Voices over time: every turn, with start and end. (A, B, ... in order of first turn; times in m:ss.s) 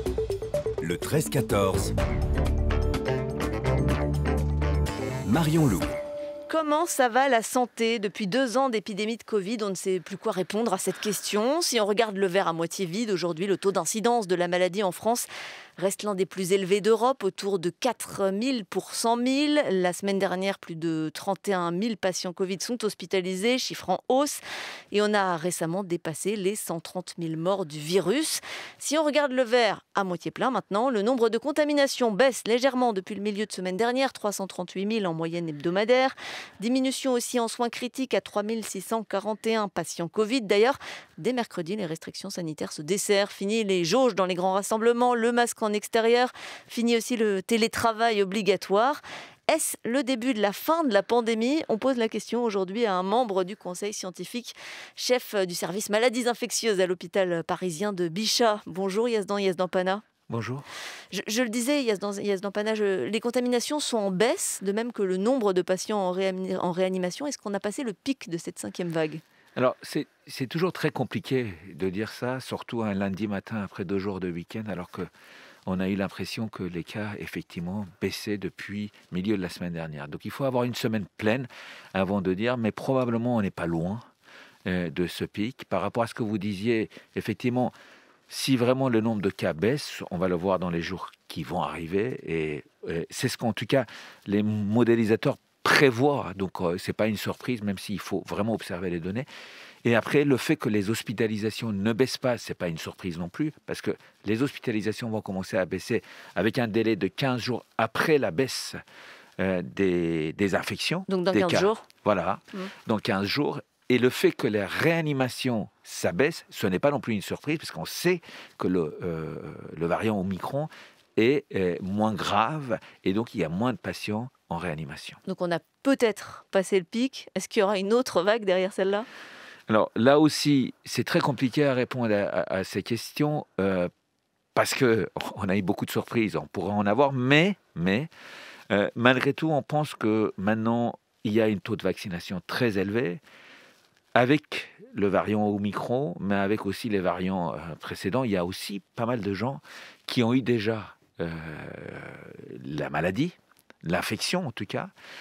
0:00.8-0:02.0 A
0:05.2-0:06.0 A
0:06.5-0:15.3 B
0:15.8-0:24.4 B
0:24.9-1:00.0 B
1:00.3-1:00.7 C
1:01.1-1:09.2 B
1:09.6-1:15.1 C
1:15.6-1:24.0 C
1:24.6-1:27.7 C
1:28.3-1:39.3 C
1:39.8-1:48.8 C
1:49.4-2:05.2 C
1:51.1-1:51.8 B
2:05.3-2:09.1 B
2:09.7-2:13.9 C
2:14.5-2:18.1 C
2:18.7-2:23.2 C
2:24.1-2:34.9 C